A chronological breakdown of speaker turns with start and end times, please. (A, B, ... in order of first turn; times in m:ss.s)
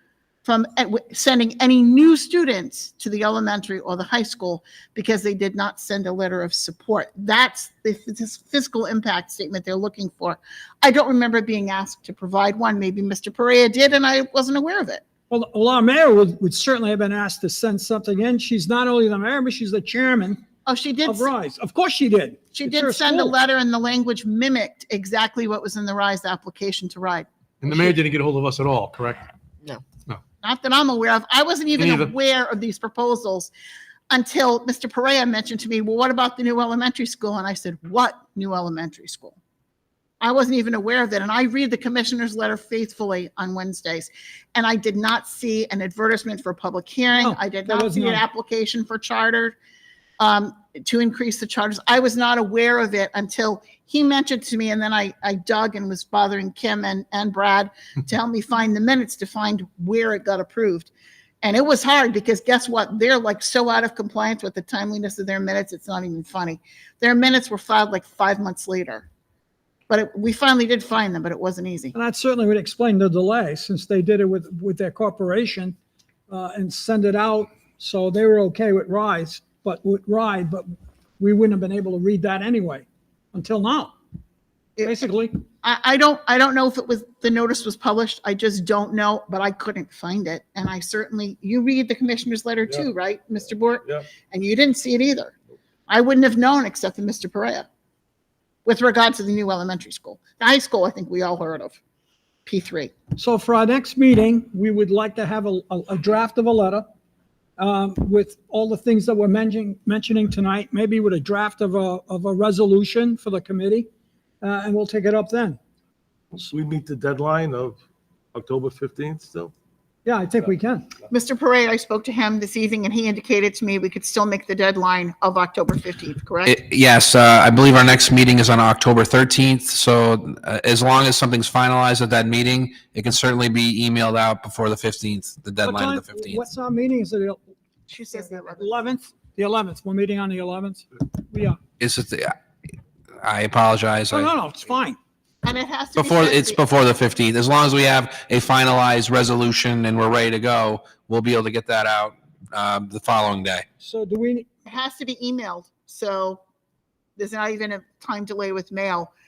0:00.4-0:15.0 A
0:15.3-0:20.4 B
0:20.6-0:21.3 A
0:21.0-0:23.4 B
0:22.5-0:27.8 A
0:27.6-0:29.3 C
0:30.4-0:33.5 A
0:31.8-0:32.1 C
0:34.1-0:39.4 A
0:40.2-0:49.6 A
0:47.2-0:48.2 B
0:50.2-1:00.9 A
1:01.4-1:09.1 A
1:09.9-1:11.9 A
1:11.9-1:15.8 B
1:16.3-1:20.6 B
1:21.2-1:23.9 B
1:24.8-1:25.0 A
1:24.8-1:25.4 B
1:25.6-1:35.3 A
1:35.9-1:37.7 A
1:38.6-1:41.8 A
1:42.4-1:42.9 A
1:43.2-1:46.8 B
1:47.6-1:53.9 B
1:54.4-1:55.6 B
1:56.3-1:57.8 D
1:58.3-1:59.5 D
2:00.0-2:00.9 B
2:01.1-2:06.6 A
2:06.4-2:16.4 E
2:15.6-2:17.4 B
2:17.9-2:18.8 A
2:18.1-2:21.6 B
2:21.8-2:22.3 E
2:23.2-2:24.3 E
2:24.1-2:25.0 B
2:25.4-2:26.6 A
2:26.0-2:33.6 E
2:33.8-2:34.5 B
2:34.6-2:36.4 A
2:37.2-2:39.1 A